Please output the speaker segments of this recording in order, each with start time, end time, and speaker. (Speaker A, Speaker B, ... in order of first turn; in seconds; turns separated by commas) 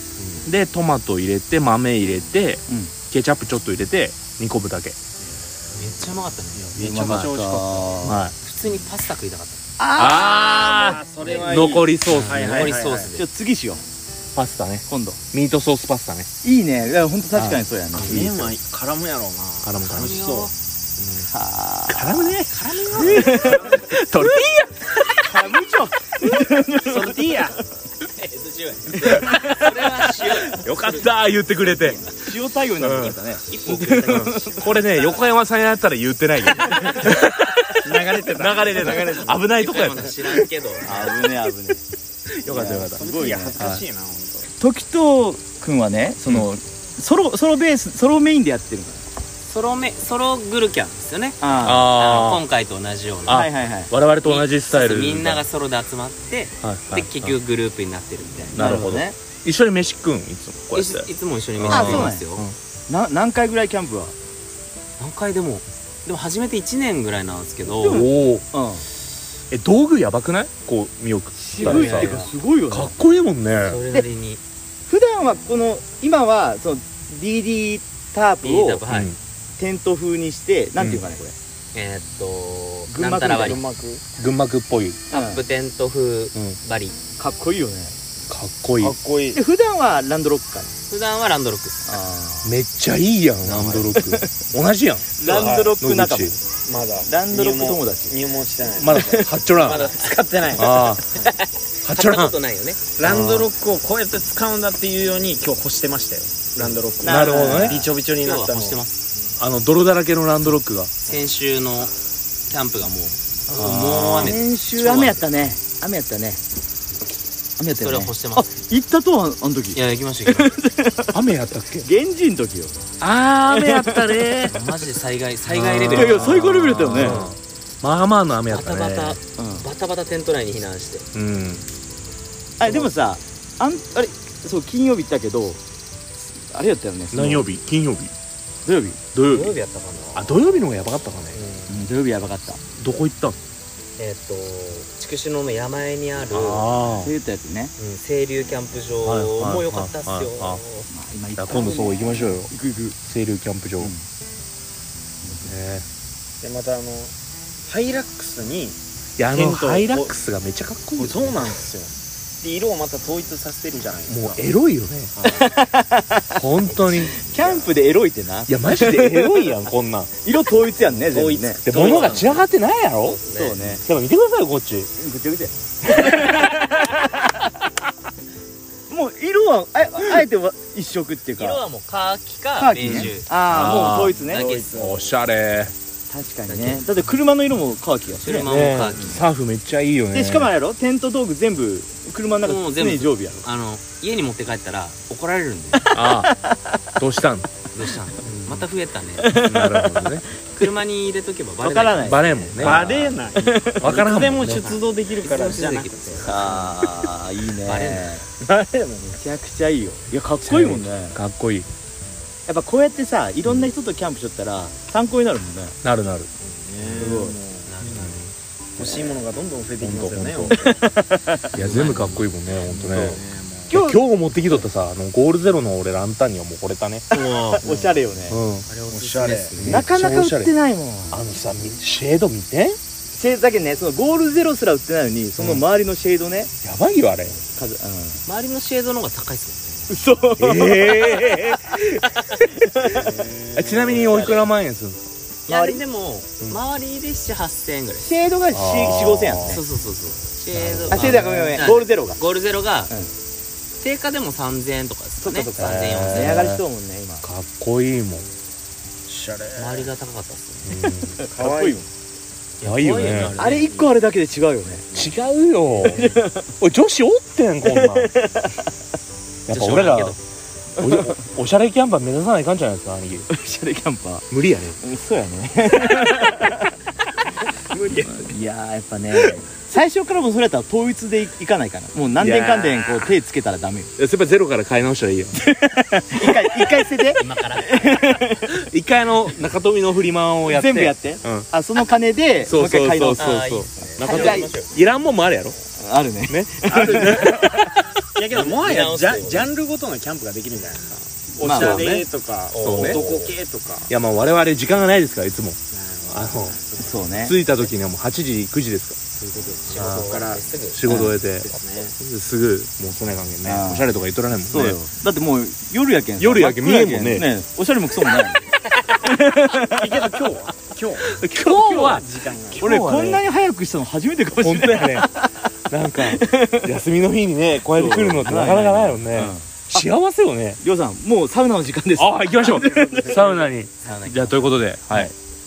Speaker A: 0.4-5.0, Speaker B: 2.7-2.9, Speaker C: 5.8-7.2, Speaker D: 6.5-8.1, Speaker B: 6.8-8.2, Speaker A: 8.1-8.3, Speaker C: 8.1-9.6, Speaker B: 9.8-11.0, Speaker A: 10.0-12.7, Speaker D: 10.5-13.2, Speaker C: 11.2-13.2, Speaker B: 13.2-13.8, Speaker A: 14.3-16.3, Speaker B: 14.9-15.2, Speaker B: 16.4-18.5, Speaker A: 17.4-18.3, Speaker D: 17.9-20.5, Speaker A: 19.6-20.2, Speaker C: 19.9-20.5, Speaker A: 21.0-21.3, Speaker B: 21.3-22.4, Speaker A: 21.9-25.3, Speaker C: 22.5-23.5, Speaker B: 22.9-23.7, Speaker D: 23.4-23.9, Speaker B: 25.2-27.6, Speaker D: 26.8-27.6, Speaker C: 28.1-31.1, Speaker B: 29.0-29.4, Speaker A: 30.5-32.0, Speaker B: 31.8-34.8, Speaker A: 32.8-40.4, Speaker C: 33.5-35.3, Speaker D: 37.7-39.4, Speaker C: 38.8-41.2, Speaker B: 40.8-41.8, Speaker A: 42.4-43.0, Speaker B: 42.5-43.6, Speaker D: 42.9-44.5, Speaker B: 44.6-49.0, Speaker C: 49.5-53.5, Speaker B: 51.4-51.9, Speaker A: 51.6-52.4, Speaker A: 53.2-55.5, Speaker B: 53.3-53.9, Speaker C: 54.2-58.9, Speaker A: 56.6-57.4, Speaker A: 58.5-62.6, Speaker B: 58.5-59.1, Speaker C: 60.7-62.5, Speaker B: 61.7-62.3, Speaker B: 62.9-64.2, Speaker C: 65.0-68.1, Speaker B: 67.6-68.8, Speaker A: 67.8-68.4, Speaker A: 69.5-73.8, Speaker B: 71.4-73.0, Speaker C: 71.5-72.3, Speaker C: 73.6-74.4, Speaker B: 74.9-78.8, Speaker C: 78.4-79.2, Speaker A: 78.9-79.2, Speaker B: 79.6-81.3, Speaker A: 80.8-81.0, Speaker C: 81.7-83.6, Speaker D: 82.9-84.0, Speaker B: 83.0-83.3, Speaker A: 84.2-85.0, Speaker B: 85.1-85.4, Speaker C: 85.1-87.0, Speaker B: 87.2-87.9, Speaker A: 88.3-89.0, Speaker D: 88.8-89.4, Speaker B: 89.3-90.7, Speaker C: 90.9-91.7, Speaker B: 91.8-92.5, Speaker A: 92.4-96.3, Speaker C: 93.5-93.8, Speaker B: 93.9-94.2, Speaker B: 95.2-96.4, Speaker D: 95.2-95.8, Speaker D: 96.6-101.3, Speaker B: 97.0-98.2, Speaker A: 98.8-99.9, Speaker C: 99.5-100.1, Speaker A: 100.5-101.0, Speaker C: 100.7-102.8, Speaker A: 101.8-102.3, Speaker D: 103.0-108.8, Speaker A: 103.0-103.5, Speaker A: 106.6-107.8, Speaker B: 107.0-107.8, Speaker C: 107.8-108.9, Speaker A: 109.4-110.9, Speaker C: 111.1-111.9, Speaker C: 112.5-115.3, Speaker A: 113.5-114.4, Speaker B: 114.2-116.4, Speaker B: 117.6-121.2, Speaker C: 117.8-118.5, Speaker C: 119.7-120.6, Speaker A: 121.1-121.9, Speaker B: 121.8-122.8, Speaker A: 123.0-124.7, Speaker B: 123.5-124.0, Speaker C: 124.5-127.3, Speaker A: 125.5-129.2, Speaker B: 125.9-127.2, Speaker C: 128.5-131.1, Speaker B: 129.4-129.7, Speaker A: 131.1-131.7, Speaker B: 132.6-135.6, Speaker C: 132.7-132.9, Speaker B: 136.2-137.5, Speaker A: 137.1-138.1, Speaker B: 138.7-139.0, Speaker A: 139.1-139.6, Speaker C: 139.2-140.6, Speaker A: 140.2-141.4, Speaker C: 141.3-141.7, Speaker B: 141.7-142.6, Speaker A: 142.8-143.4, Speaker C: 144.0-147.0, Speaker A: 146.3-147.1, Speaker B: 147.0-147.7, Speaker C: 147.8-150.9, Speaker A: 149.0-150.6, Speaker B: 150.9-153.0, Speaker A: 151.4-152.5, Speaker A: 153.0-153.9, Speaker B: 153.8-154.0, Speaker A: 155.4-155.8, Speaker D: 156.4-157.1, Speaker D: 157.7-160.2, Speaker A: 159.2-161.5, Speaker D: 160.9-164.5, Speaker A: 164.1-165.1, Speaker D: 165.2-165.5, Speaker B: 165.3-166.4, Speaker A: 166.3-167.2, Speaker C: 166.7-167.7, Speaker B: 167.3-169.6, Speaker A: 168.5-170.1, Speaker B: 170.2-171.6, Speaker D: 171.0-172.4, Speaker A: 171.7-173.2, Speaker C: 171.8-172.4, Speaker C: 173.0-173.8, Speaker B: 173.3-173.8, Speaker A: 173.8-174.9, Speaker B: 174.9-177.2, Speaker B: 178.9-181.6, Speaker C: 181.3-184.7, Speaker B: 182.5-184.5, Speaker A: 182.8-184.2, Speaker D: 184.1-185.1, Speaker A: 184.8-185.7, Speaker B: 186.1-189.1, Speaker C: 186.5-186.9, Speaker C: 188.2-189.3, Speaker A: 188.4-190.5, Speaker B: 190.1-193.4, Speaker C: 192.4-195.9, Speaker B: 195.8-196.8, Speaker A: 195.9-196.3, Speaker A: 197.0-197.5, Speaker C: 197.7-199.4, Speaker B: 199.2-200.7, Speaker A: 199.3-200.3, Speaker C: 200.5-202.9, Speaker B: 201.6-202.3, Speaker A: 202.0-203.2, Speaker D: 202.6-206.3, Speaker B: 203.3-203.9, Speaker A: 203.8-204.8, Speaker C: 204.2-206.8, Speaker B: 206.2-208.2, Speaker C: 207.7-208.1, Speaker D: 208.4-209.2, Speaker B: 209.2-211.2, Speaker A: 210.4-211.7, Speaker B: 212.5-215.8, Speaker A: 215.8-216.3, Speaker D: 216.4-218.1, Speaker B: 216.9-217.4, Speaker C: 217.7-218.3, Speaker D: 218.8-220.9, Speaker B: 218.8-219.2, Speaker A: 219.8-220.6, Speaker B: 220.6-221.6, Speaker C: 221.5-222.3, Speaker A: 221.5-227.1, Speaker D: 221.7-221.9, Speaker D: 222.6-223.8, Speaker C: 222.9-223.2, Speaker B: 223.7-224.0, Speaker C: 227.1-227.6, Speaker B: 227.1-228.4, Speaker D: 227.6-228.0, Speaker A: 228.3-228.7, Speaker C: 228.7-229.8, Speaker D: 228.9-229.5, Speaker A: 229.6-230.5, Speaker B: 229.7-231.3, Speaker A: 231.1-232.8, Speaker B: 233.1-236.5, Speaker A: 235.4-235.7, Speaker A: 236.6-237.4, Speaker B: 237.6-238.2, Speaker C: 238.2-240.0, Speaker B: 239.9-241.6, Speaker A: 240.4-243.0, Speaker B: 242.8-243.1, Speaker D: 242.9-244.2, Speaker A: 243.5-245.0, Speaker C: 243.9-244.4, Speaker B: 243.9-244.4, Speaker B: 245.5-245.8, Speaker C: 245.5-248.1, Speaker B: 248.0-249.6, Speaker A: 248.5-249.6, Speaker C: 249.4-252.9, Speaker A: 250.5-251.2, Speaker B: 250.9-252.2, Speaker C: 253.8-256.5, Speaker B: 255.2-257.3, Speaker A: 255.6-256.6, Speaker A: 257.2-258.3, Speaker D: 259.1-259.9, Speaker C: 259.6-260.7, Speaker A: 260.6-261.2, Speaker B: 261.2-261.8, Speaker D: 261.3-261.9, Speaker C: 262.6-263.9, Speaker A: 262.6-263.4, Speaker B: 263.4-265.0, Speaker A: 264.9-268.2, Speaker B: 265.8-266.5, Speaker B: 267.6-268.7, Speaker A: 269.5-270.2, Speaker C: 269.5-270.2, Speaker A: 270.8-273.3, Speaker B: 270.8-271.1, Speaker B: 273.3-274.3, Speaker A: 274.3-274.8, Speaker B: 274.8-276.7, Speaker B: 277.9-283.9, Speaker A: 282.2-283.2, Speaker A: 284.0-285.4, Speaker B: 285.4-288.5, Speaker C: 287.2-288.2, Speaker A: 288.5-291.5, Speaker B: 290.4-293.4, Speaker A: 292.4-295.6, Speaker C: 293.2-294.7, Speaker B: 294.0-294.5, Speaker B: 295.8-297.6, Speaker A: 296.3-297.8, Speaker D: 296.7-297.5, Speaker D: 298.1-303.9, Speaker C: 298.3-299.5, Speaker B: 301.4-301.8, Speaker A: 301.4-302.1, Speaker C: 302.5-303.3, Speaker A: 302.6-303.1, Speaker A: 303.9-306.6, Speaker D: 305.7-307.1, Speaker B: 306.8-307.4, Speaker A: 307.2-309.0, Speaker D: 309.2-310.4, Speaker C: 309.6-310.8, Speaker A: 309.8-310.1, Speaker A: 310.7-314.8, Speaker B: 310.9-311.2, Speaker D: 311.2-312.0, Speaker B: 313.4-313.9, Speaker B: 314.5-320.1, Speaker A: 316.2-317.3, Speaker D: 319.6-322.7, Speaker A: 321.0-323.2, Speaker B: 322.6-325.3, Speaker A: 324.4-325.1, Speaker A: 325.7-330.6, Speaker B: 326.0-326.7, Speaker B: 327.7-329.9, Speaker B: 330.6-333.2, Speaker A: 331.9-335.1, Speaker C: 333.8-334.6